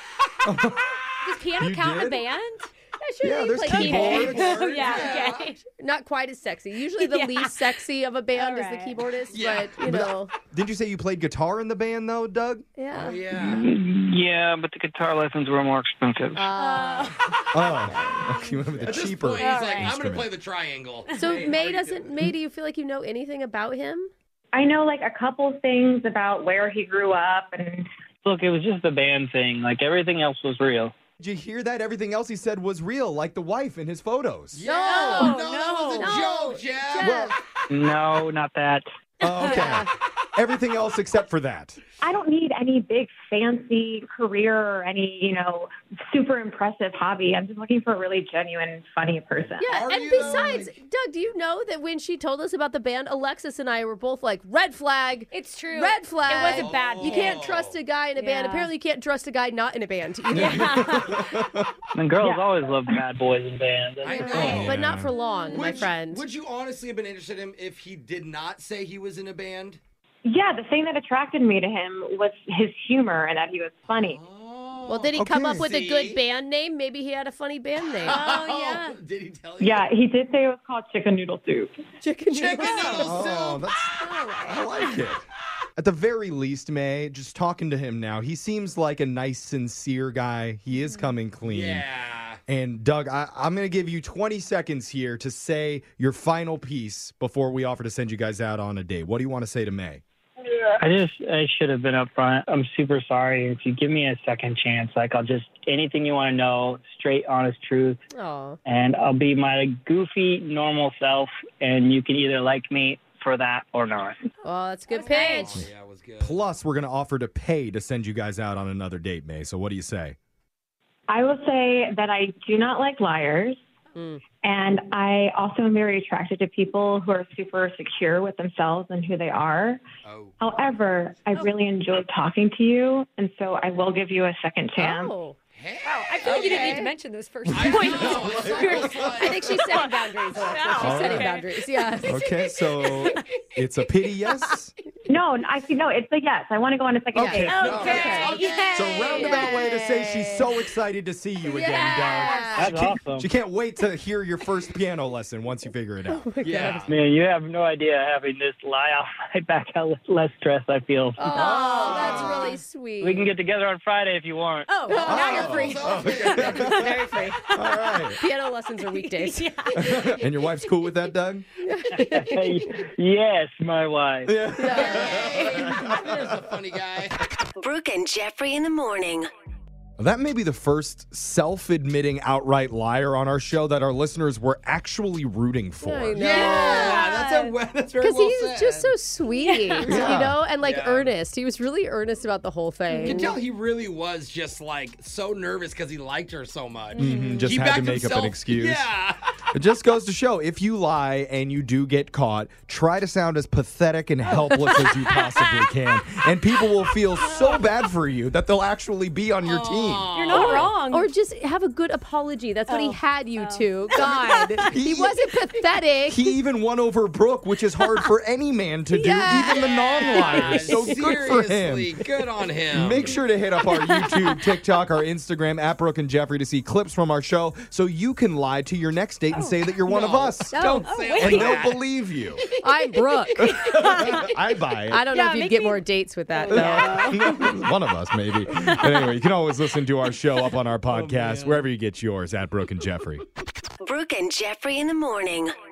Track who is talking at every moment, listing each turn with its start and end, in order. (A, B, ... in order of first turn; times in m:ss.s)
0:00.4-0:01.0 A
0:01.2-0:02.7 B
0:01.6-0:02.2 A
0:03.0-0:05.1 C
0:03.2-0:04.5 A
0:03.7-0:05.6 B
0:04.0-0:05.6 D
0:05.7-0:10.3 C
0:07.0-0:07.6 B
0:08.3-0:09.0 B
0:09.3-0:09.8 D
0:09.8-0:12.7 A
0:12.8-0:13.2 C
0:12.9-0:13.6 D
0:13.3-0:16.5 E
0:16.4-0:17.1 C
0:16.6-0:17.1 B
0:17.5-0:20.3 A
0:17.7-0:18.1 C
0:18.8-0:22.3 D
0:19.4-0:19.9 B
0:21.1-0:24.1 C
0:24.5-0:27.9 F
0:28.2-0:30.9 E
0:31.2-0:34.6 A
0:34.5-0:37.2 D
0:34.6-0:37.3 C
0:34.9-0:36.1 B
0:37.0-0:37.4 A
0:37.7-0:38.8 E
0:39.2-0:41.8 A
0:39.4-0:39.9 C
0:42.0-0:49.8 F
0:49.6-1:01.1 C
0:49.6-0:50.8 D
0:55.3-0:57.4 B
0:56.5-0:57.8 D
0:58.2-0:58.7 B
1:00.3-1:01.7 A
1:00.4-1:01.2 B
1:01.9-1:04.5 E
1:02.2-1:02.9 F
1:04.0-1:04.9 D
1:04.2-1:06.2 C
1:04.3-1:05.1 A
1:04.3-1:05.6 B
1:05.5-1:09.8 D
1:10.2-1:14.2 F
1:13.9-1:16.2 D
1:14.9-1:18.2 C
1:15.1-1:15.7 A
1:17.8-1:19.9 D
1:18.1-1:18.9 B
1:19.6-1:21.7 F
1:22.0-1:23.2 C
1:22.3-1:23.6 D
1:23.0-1:25.2 A
1:24.0-1:24.8 C
1:25.8-1:31.8 A
1:31.4-1:32.4 D
1:32.5-1:40.0 A
1:40.4-1:48.0 E
1:48.1-1:48.6 C
1:48.6-1:54.3 E
1:54.4-1:55.6 C
1:54.9-1:56.4 D
1:55.2-1:55.5 B
1:55.6-2:00.2 A
2:01.1-2:03.6 F
2:04.0-2:04.2 C
2:04.4-2:09.8 F
2:10.0-2:10.4 D
2:10.4-2:15.1 F
2:14.8-2:15.4 C
2:15.5-2:16.9 D
2:15.8-2:23.2 B
2:16.2-2:16.9 C
2:17.4-2:19.3 A
2:17.5-2:19.7 D
2:17.7-2:18.3 C
2:19.1-2:22.3 C
2:20.8-2:21.4 A
2:22.0-2:24.7 A
2:25.1-2:28.3 F
2:27.1-2:36.3 A
2:27.2-2:28.4 C
2:27.5-2:29.6 B
2:27.6-2:29.3 D
2:29.0-2:30.5 C
2:31.4-2:32.7 C
2:31.8-2:32.5 B
2:32.5-2:33.3 E
2:36.1-2:36.9 C
2:36.4-2:36.9 D
2:36.8-2:41.3 E
2:41.2-2:43.3 C
2:41.3-2:42.5 A
2:41.5-2:42.6 D
2:43.0-2:45.0 E
2:44.7-2:46.8 B
2:44.9-2:47.4 C
2:44.9-2:46.9 D
2:45.0-2:48.2 A
2:48.2-2:49.8 C
2:49.0-2:50.0 B
2:49.7-2:51.4 A
2:51.6-2:52.4 C
2:51.9-2:54.4 E
2:54.2-2:56.4 A
2:54.6-2:55.1 C
2:54.7-2:57.2 D
2:57.6-2:59.2 G
3:00.0-3:06.5 A
3:05.8-3:13.4 C
3:06.1-3:09.0 D
3:09.3-3:09.8 B
3:09.8-3:10.4 A
3:09.8-3:11.1 D
3:12.9-3:19.2 D
3:17.0-3:18.9 A
3:17.0-3:17.5 C
3:17.1-3:17.4 B
3:19.5-3:30.6 A
3:24.3-3:25.3 C
3:29.4-3:30.7 D
3:30.1-3:31.1 B
3:30.3-3:36.2 C
3:32.7-3:34.3 B
3:34.7-3:35.2 A
3:36.1-3:42.0 A
3:38.9-3:41.1 C
3:39.4-3:43.2 D
3:42.7-3:52.4 A
3:49.8-3:52.5 D
3:50.5-3:51.7 B
3:52.6-3:53.5 C
3:53.4-3:55.1 A
3:53.4-3:54.4 B
3:54.9-3:57.1 C
3:55.1-3:57.6 B
3:56.5-4:03.2 A
3:58.6-3:59.0 B
4:00.9-4:01.6 D
4:03.8-4:05.5 G